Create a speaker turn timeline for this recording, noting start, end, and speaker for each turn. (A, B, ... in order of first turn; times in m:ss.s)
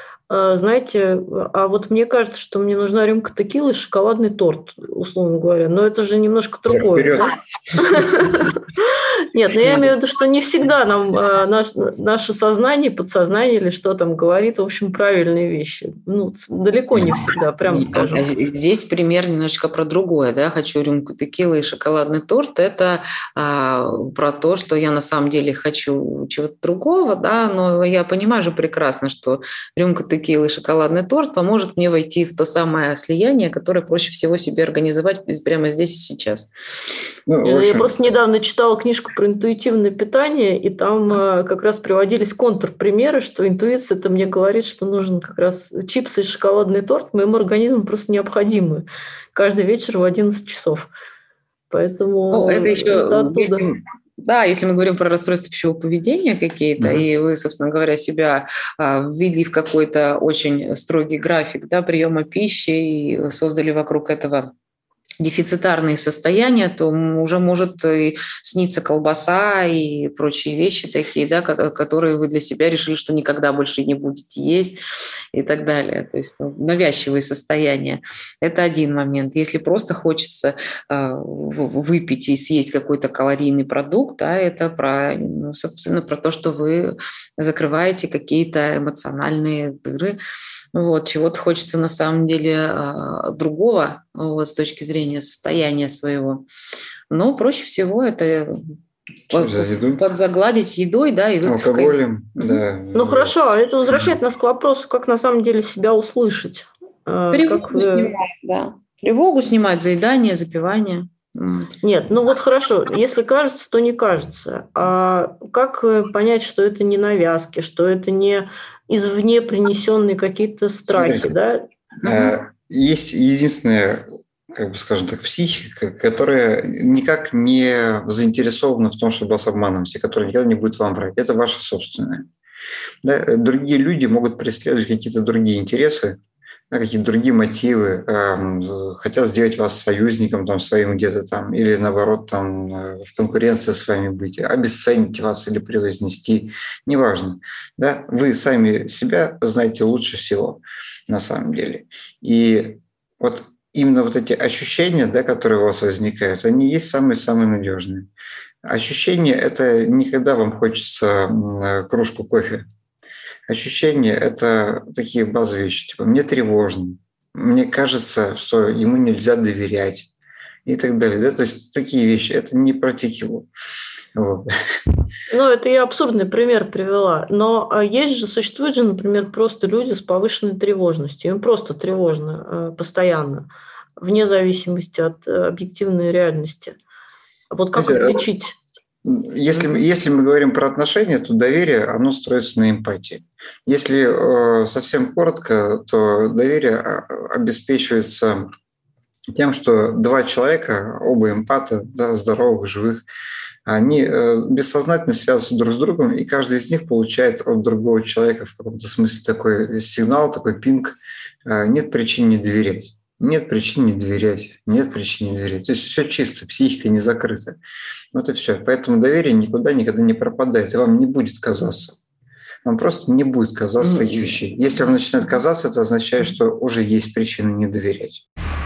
0:00.3-0:08.6 A
0:06.7-0:08.1 B
0:09.3-0:18.2 A
0:17.7-0:36.5 C
0:37.3-0:37.9 B
0:37.4-0:50.9 A
0:51.7-0:53.7 A
0:52.3-1:04.5 C
0:56.8-0:57.1 B
1:05.2-1:14.8 C
1:15.3-1:30.2 C
1:30.7-1:36.4 C
1:37.1-1:38.8 C
1:39.3-1:42.6 C
1:39.3-1:40.0 B
1:41.4-1:43.3 B
1:42.9-1:48.1 A
1:47.3-1:51.7 C
1:51.8-2:01.7 A
2:00.9-2:01.3 B
2:02.0-2:12.3 B
2:02.0-2:02.3 C
2:13.0-2:16.2 B
2:16.7-2:38.1 B
2:38.6-2:42.7 B
2:43.5-2:50.1 B
2:50.7-2:53.5 B
2:54.2-2:54.5 B
2:55.3-3:06.8 A
3:07.5-3:08.6 A
3:07.8-3:08.2 B
3:09.0-3:18.5 B
3:19.3-3:23.0 B
3:23.7-3:37.6 B
3:38.1-3:42.0 B
3:42.6-3:48.2 B
3:43.8-3:44.3 C